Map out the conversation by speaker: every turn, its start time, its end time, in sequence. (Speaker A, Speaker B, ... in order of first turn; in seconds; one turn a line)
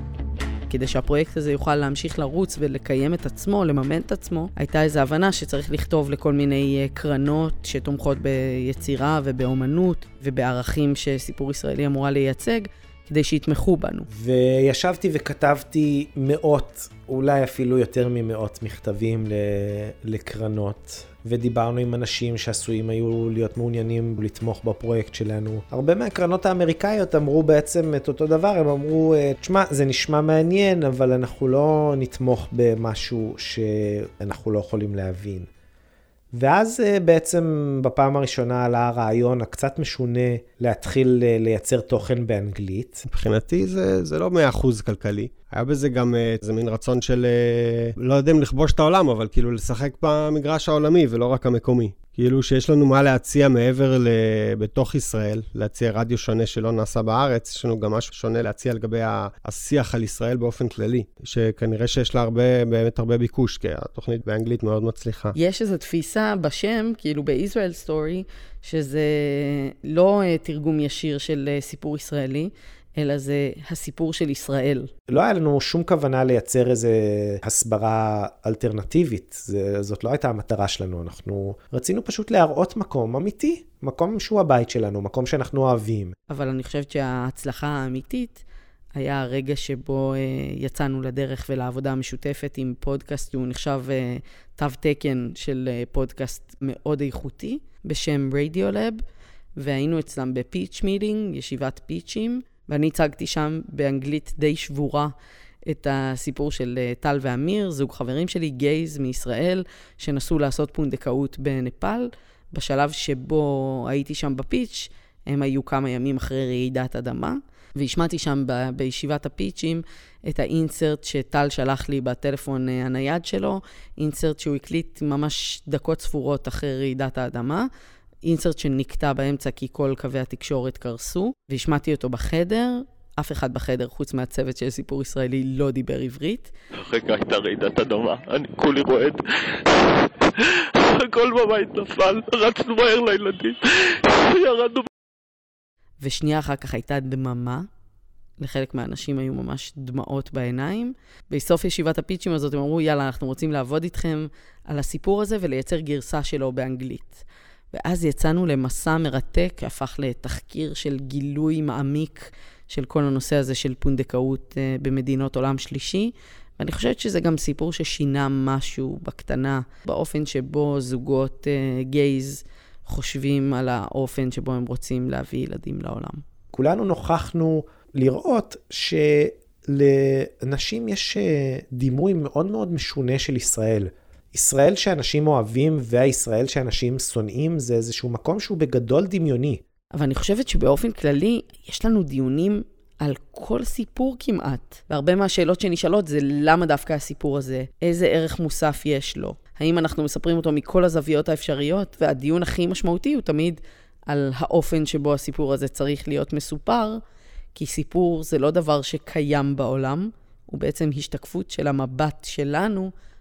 Speaker A: 0.7-14.1
Speaker B: 14.1-35.5
Speaker B: 36.4-43.0
Speaker C: 43.1-65.3
Speaker A: 65.3-74.9
Speaker B: 75.1-86.1
Speaker A: 86.3-88.4
Speaker A: 89.0-99.0
Speaker A: 99.6-105.1
Speaker A: 105.7-127.7
Speaker A: 128.2-136.5
Speaker D: 136.9-139.2
Speaker D: 140.9-143.6
Speaker D: 144.1-144.9
Speaker A: 146.0-147.6
Speaker A: 148.4-176.2
Speaker B: 176.5-189.6
Speaker A: 189.9-207.0
Speaker A: 207.5-212.9